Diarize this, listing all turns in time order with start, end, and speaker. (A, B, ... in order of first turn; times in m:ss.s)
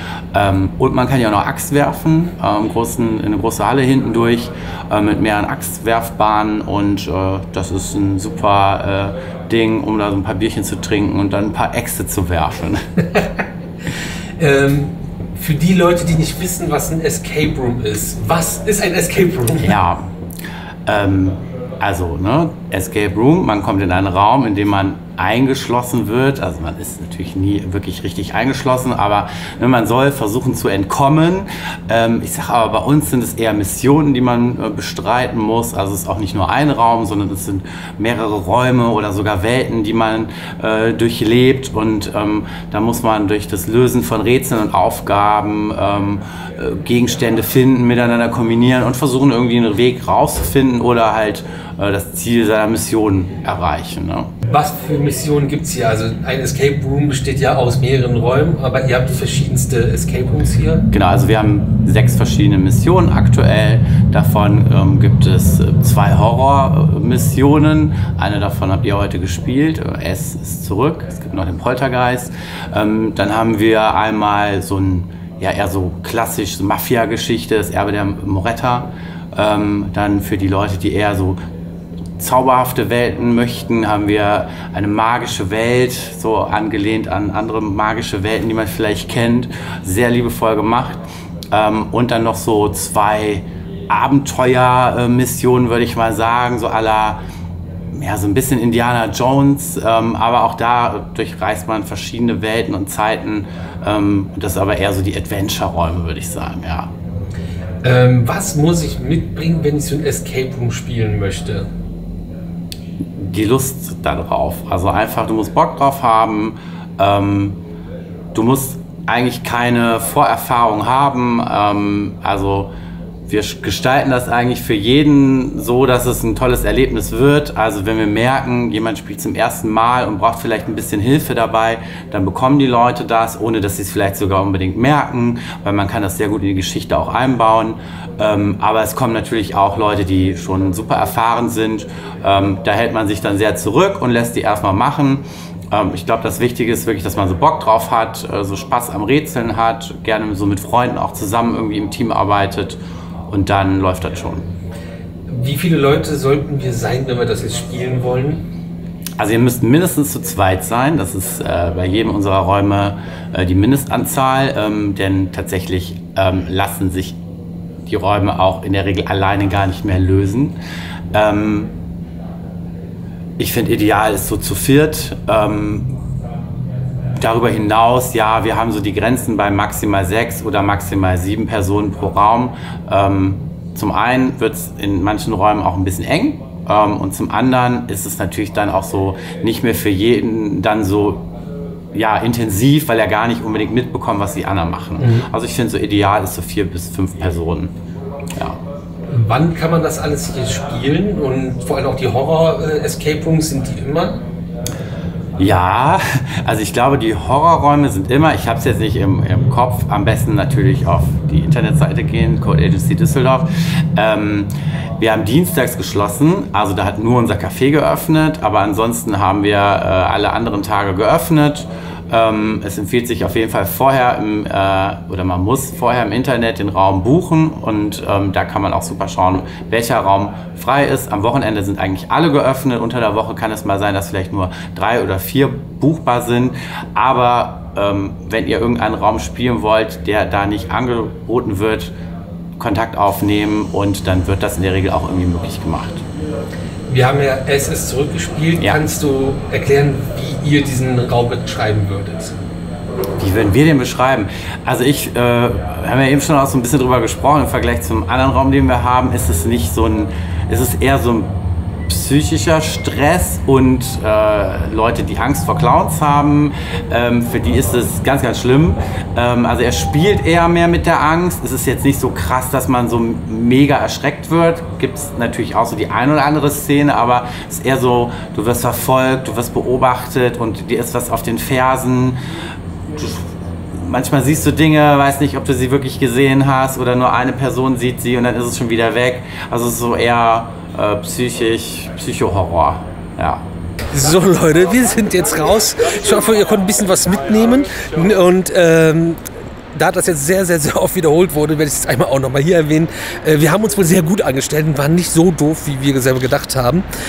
0:00.3-0:12.8 A
0:14.4-0:19.8 B
0:19.6-0:20.0 A
0:20.8-0:54.3 A
0:54.4-1:00.8 B
1:00.9-1:21.4 A
1:22.2-1:37.2 A
1:37.9-1:46.9 A
1:47.8-1:51.7 B
1:53.2-1:57.6 A
1:58.3-2:02.7 A
2:03.3-2:34.4 A
2:35.3-2:38.4 B
2:39.2-2:47.2 A
2:47.8-2:50.6 A
2:51.1-2:51.7 A
2:53.4-2:55.9 A
2:57.2-3:11.3 A
3:11.9-3:17.7 A
3:15.0-3:15.3 B
3:19.1-3:24.2 B
3:25.4-4:01.9 A
4:02.6-4:06.0 A
4:06.9-4:12.3 B
4:08.6-4:08.8 A
4:13.2-4:21.3 A
4:21.9-4:42.2 A
4:42.9-4:53.4 A
4:53.9-4:59.2 B
4:59.7-5:06.8 B